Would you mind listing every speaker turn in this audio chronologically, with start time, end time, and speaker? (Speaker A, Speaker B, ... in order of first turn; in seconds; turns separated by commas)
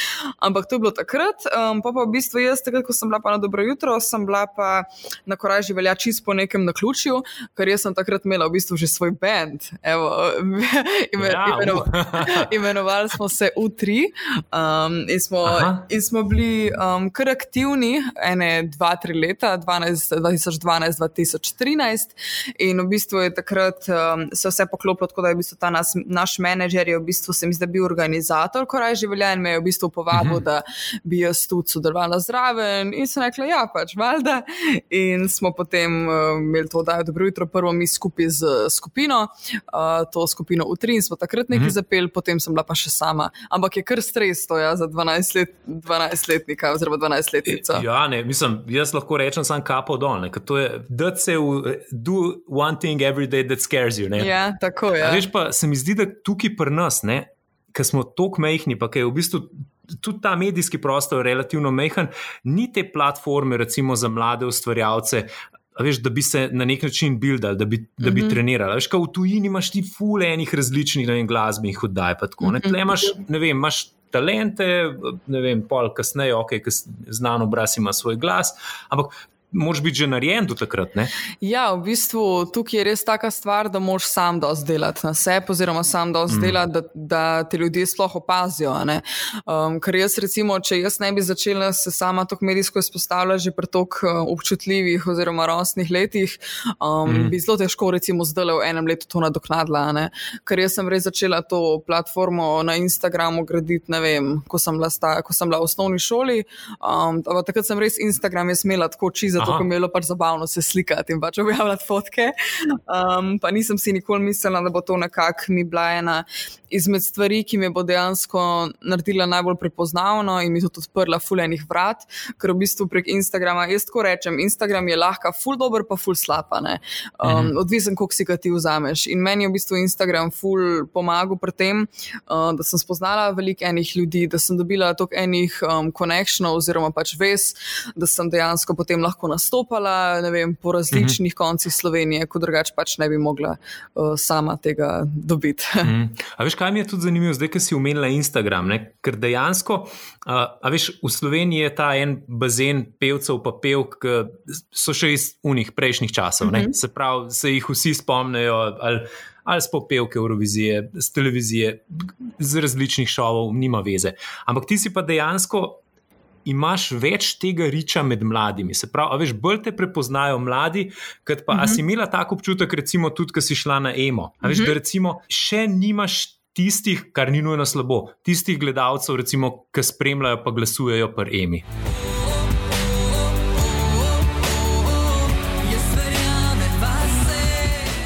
Speaker A: 0.4-47.9, Speaker B: 11.2-12.5, Speaker B: 15.4-15.8, Speaker B: 30.1-30.4, Speaker B: 47.5-54.3, Speaker A: 54.2-55.3, Speaker B: 55.0-81.1, Speaker A: 68.0-68.4, Speaker A: 72.4-73.2, Speaker A: 81.4-145.9, Speaker B: 86.3-86.6, Speaker B: 97.0-97.3, Speaker B: 109.4-109.7, Speaker B: 127.2-127.5, Speaker B: 140.9-141.2, Speaker B: 145.8-165.8, Speaker A: 156.4-156.7, Speaker B: 166.4-181.6, Speaker A: 171.5-171.8, Speaker A: 174.4-174.7, Speaker A: 185.7-187.6